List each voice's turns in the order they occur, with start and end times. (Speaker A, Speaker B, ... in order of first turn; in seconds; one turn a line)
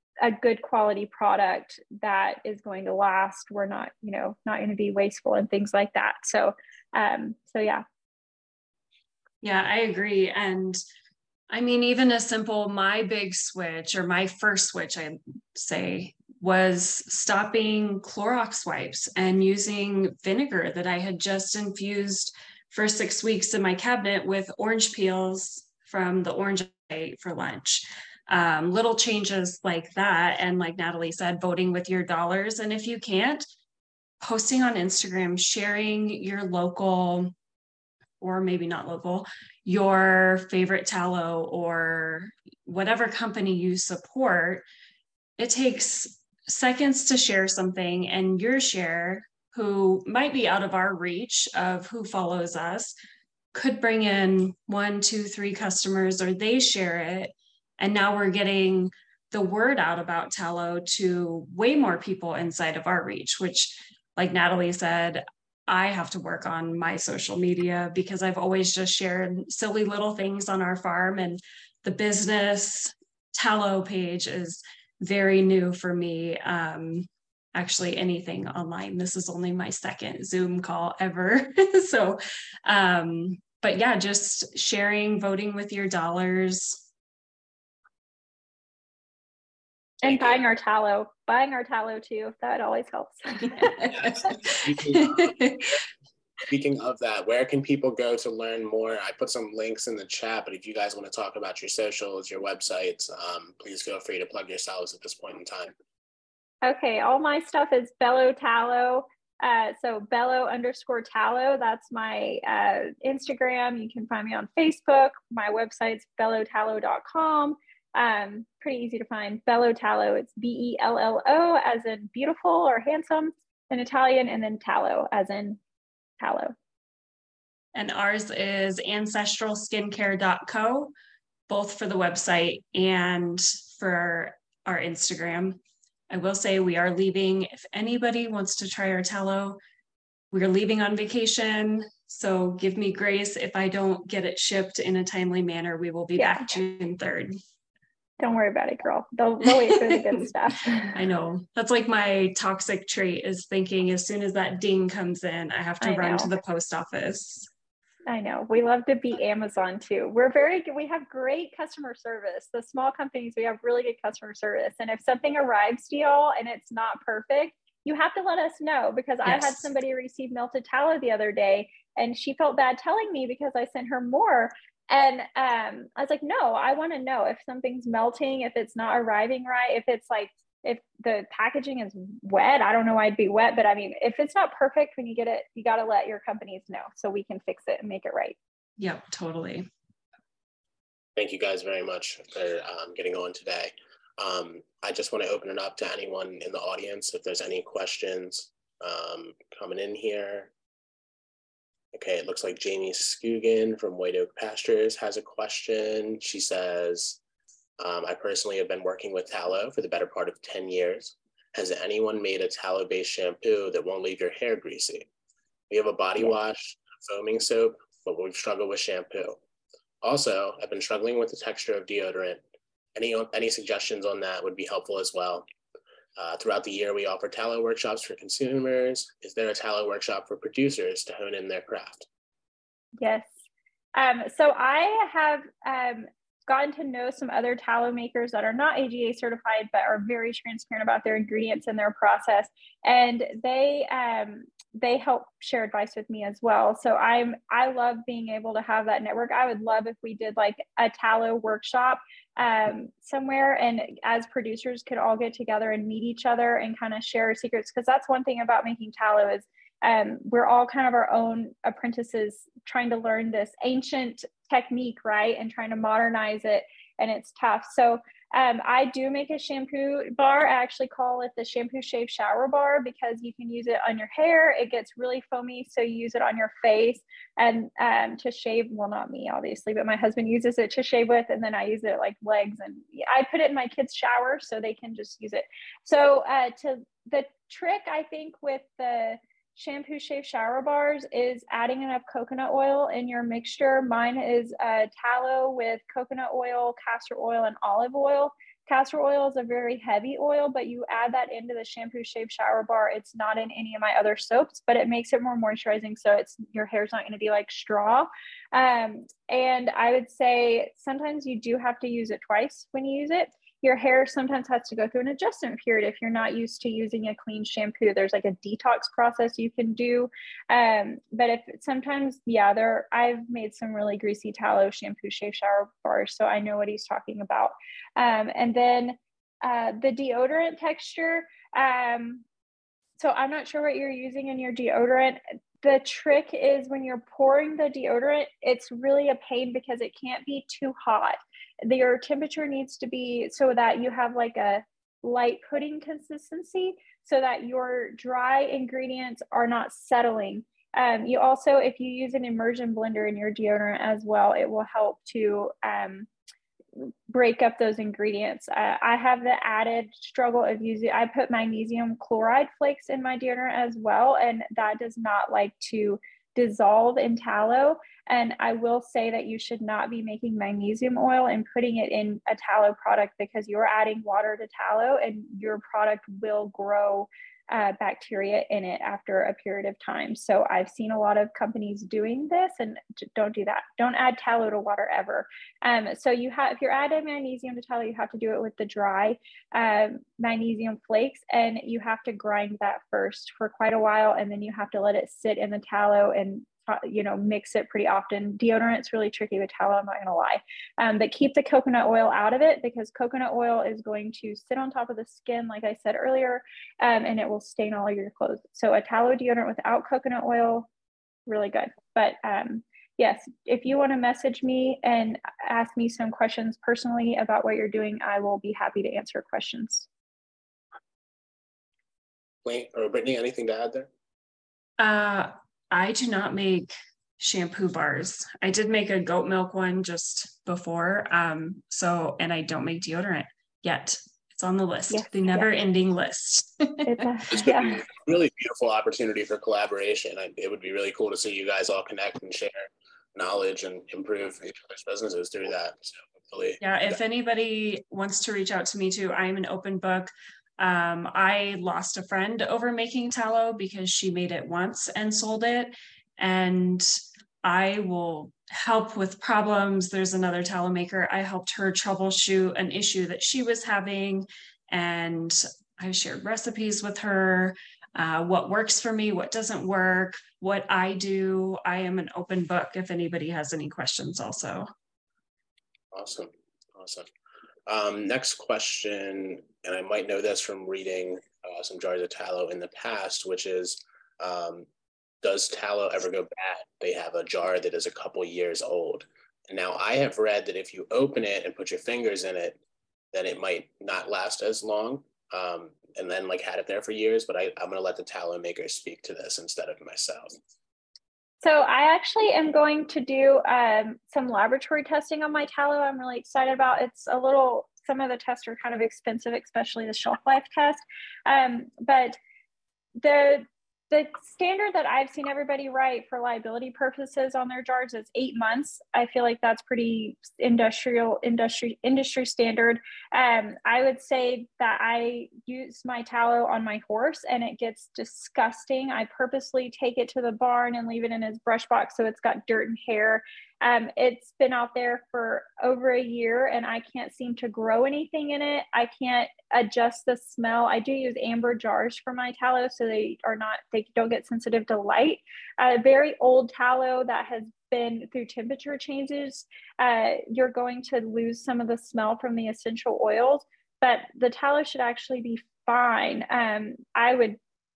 Speaker A: 0.2-7.8
Speaker B: 9.4-10.8
Speaker B: 11.5-33.4
Speaker B: 34.2-37.3
Speaker B: 38.2-44.6
Speaker B: 45.4-52.9
Speaker B: 53.5-86.8
Speaker A: 90.0-93.9
Speaker C: 90.0-90.4
Speaker B: 93.6-94.4
Speaker C: 93.8-95.4
Speaker B: 94.9-95.7
Speaker C: 96.5-105.7
Speaker A: 106.6-125.6
Speaker A: 126.2-126.5
Speaker B: 127.7-130.9
Speaker B: 131.5-139.6
Speaker B: 140.3-147.3
Speaker A: 146.2-146.5
Speaker A: 148.2-150.9
Speaker B: 149.6-150.2
Speaker B: 150.8-157.5
Speaker A: 155.8-156.3
Speaker A: 158.1-188.3
Speaker B: 169.2-169.7
Speaker B: 188.8-189.7
Speaker C: 191.2-200.5
Speaker C: 201.9-207.2
Speaker C: 207.8-215.1
Speaker C: 215.7-219.4
Speaker C: 220.0-222.4
Speaker C: 222.9-225.4
Speaker C: 226.2-232.1
Speaker A: 233.0-233.3
Speaker A: 233.9-332.2
Speaker A: 333.0-356.1
Speaker A: 356.8-410.7
Speaker A: 411.2-419.9
Speaker C: 422.4-423.9
Speaker B: 424.8-437.1
Speaker A: 434.9-435.5
Speaker A: 436.9-437.8
Speaker C: 437.3-447.0
Speaker B: 446.6-474.7
Speaker C: 475.9-477.1
Speaker C: 477.7-484.7
Speaker C: 485.2-492.6
Speaker C: 493.1-500.4
Speaker A: 501.4-512.2
Speaker A: 513.0-557.4